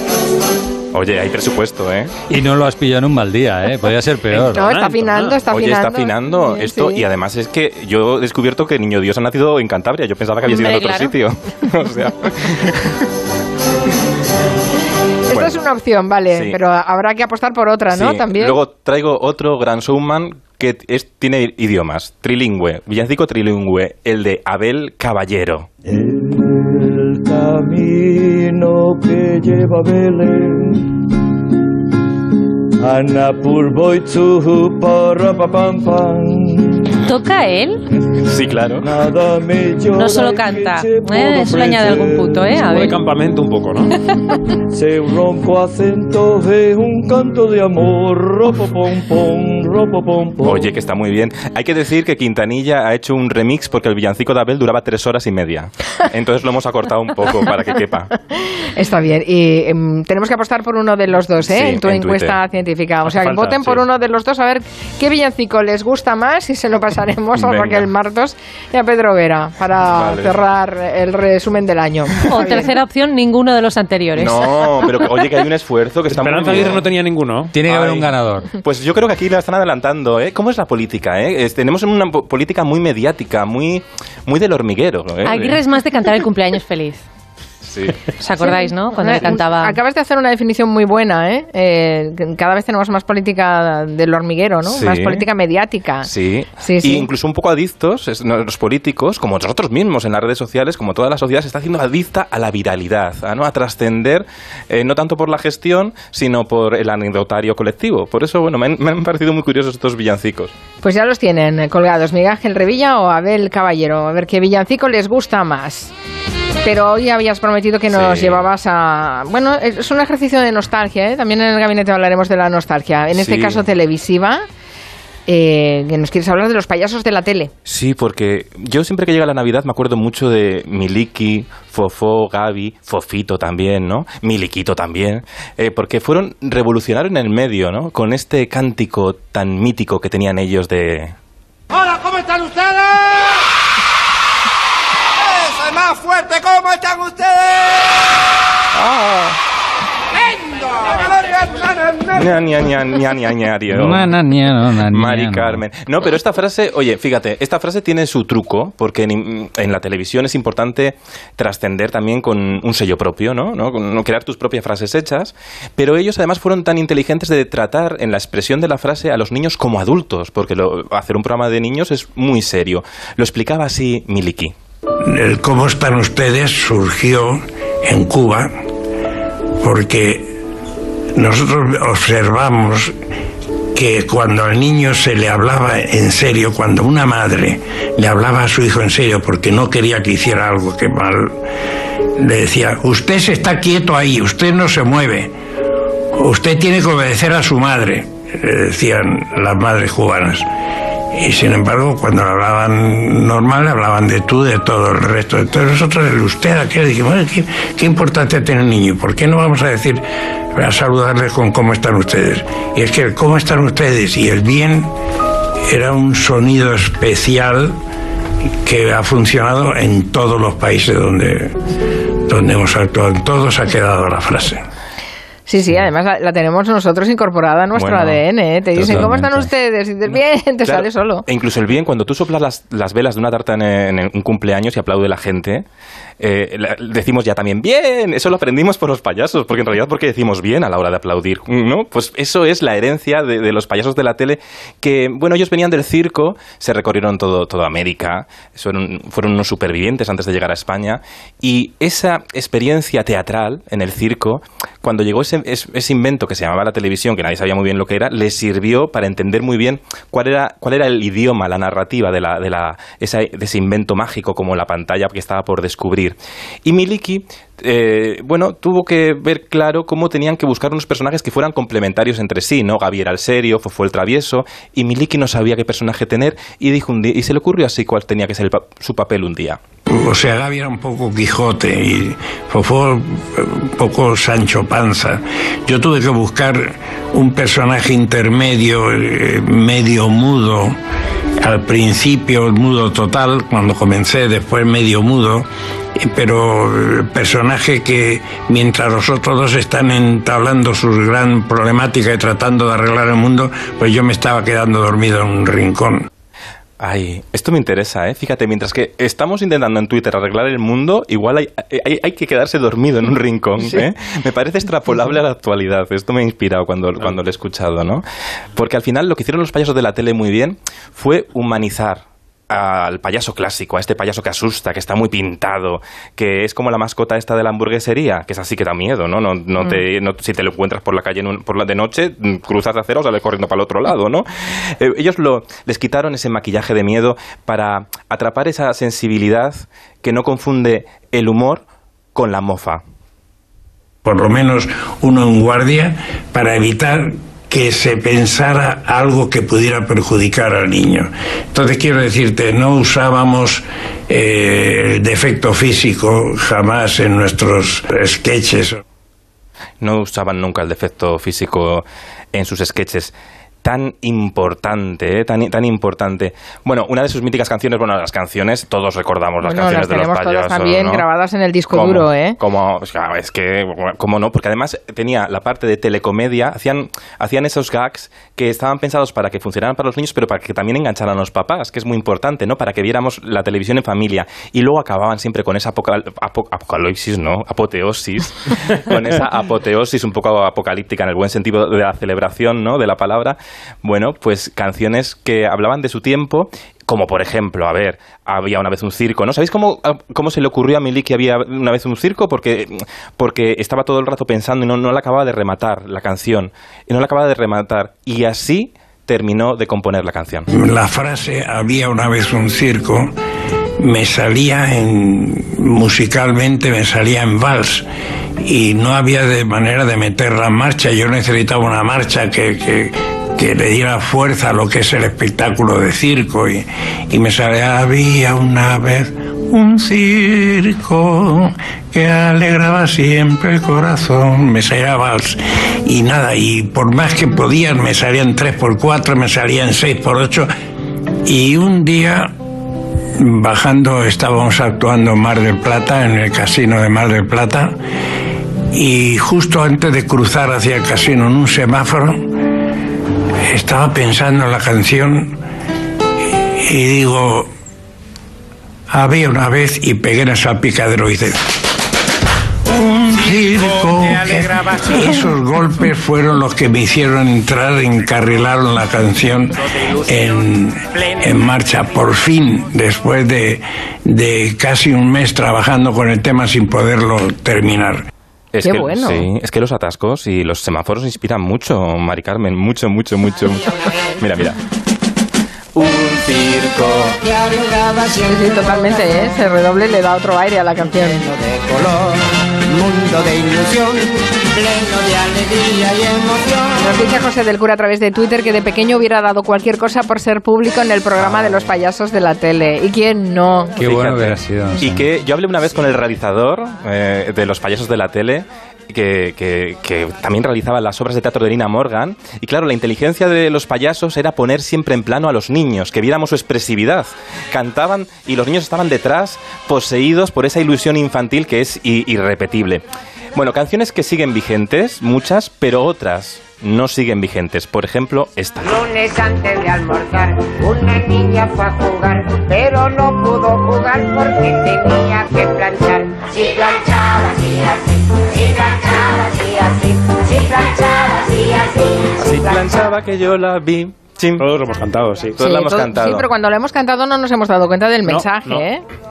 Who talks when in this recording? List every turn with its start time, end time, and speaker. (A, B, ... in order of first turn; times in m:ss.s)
0:00.9-0:02.1 A
0:02.3-0:04.7 B
0:04.4-0:05.4 C
0:04.5-0:07.0 D
0:05.5-0:13.0 A
0:10.4-0:11.2 E
0:15.3-0:15.6 A
0:15.3-0:18.6 D
0:16.3-0:16.6 A
0:17.9-0:25.7 A
0:25.8-0:31.0 F
0:32.8-0:36.9 F
0:37.0-0:37.8 E
0:38.2-0:38.9 A
0:38.8-0:42.6 F
0:39.9-0:42.9 E
0:42.6-0:43.9 C
0:44.7-0:50.7 F
0:50.4-0:58.1 A
0:58.3-1:12.7 D
1:01.4-1:02.4 A
1:03.0-1:03.8 C
1:07.4-1:07.9 A
1:09.9-1:10.4 A
1:12.3-1:14.9 E
1:14.1-1:16.9 A
1:16.1-1:17.5 C
1:17.5-1:18.5 B
1:17.7-1:25.6 A
1:25.2-1:27.0 E
1:27.6-1:28.0 A
1:28.2-1:29.8 E
1:28.4-1:36.1 D
1:34.6-1:35.2 A
1:36.0-1:50.5 A
1:36.6-1:37.1 D
1:50.8-1:55.9 D
1:56.6-2:04.4 D
1:57.9-1:58.4 A
2:03.1-2:03.6 A
2:05.2-2:07.5 D
2:07.6-2:21.1 A
2:21.8-2:22.8 G
2:25.6-2:26.6 G
2:28.7-2:29.4 A
2:30.6-2:32.0 G
2:32.1-2:34.2 A
2:33.7-2:35.6 B
2:34.8-2:54.5 A
2:55.0-2:58.6 H
2:59.6-3:00.3 H
3:01.1-3:02.9 H
3:03.7-3:11.4 H
3:12.2-3:15.3 H
3:16.1-3:20.4 H
3:21.1-3:30.0 H
3:30.5-3:34.9 H
3:35.7-3:37.8 H
3:38.6-3:41.5 H
3:42.3-3:44.6 H
3:45.5-3:51.2 D
3:47.7-3:48.2 A
3:48.8-3:49.5 B
3:48.8-3:49.1 A
3:50.6-3:55.6 A
3:56.2-4:39.6 A
4:39.9-4:50.8 H
4:51.4-5:06.1 H
5:06.8-5:18.0 A
5:18.6-5:41.6 A
5:42.1-5:42.8 A
5:44.0-5:58.8 H
5:59.8-6:11.0 A
6:09.4-6:12.4 D
6:11.7-6:50.5 A
6:50.5-6:53.1 H
6:53.8-6:57.8 H
6:58.4-7:20.5 H
7:21.2-7:22.3 H
7:23.2-7:27.8 H
7:28.7-7:32.3 H
7:33.5-7:35.4 H
7:36.3-7:37.5 H
7:38.9-7:41.4 H
7:42.7-7:58.0 H
7:42.7-7:45.3 G
7:50.9-7:51.4 G
7:58.5-8:04.6 A
7:58.6-7:59.3 D
8:05.8-8:08.1 G
8:08.2-8:11.2 D
8:11.4-8:12.1 G
8:12.7-8:13.9 G
8:14.6-8:16.6 G
8:16.8-8:23.8 D
8:23.8-8:25.1 B
8:23.8-8:42.8 A
8:43.3-8:48.8 A
8:48.6-9:02.9 I
9:02.2-9:04.4 A
9:04.4-9:05.4 C
9:05.4-9:08.8 D
9:05.4-9:06.3 A
9:08.0-9:08.6 C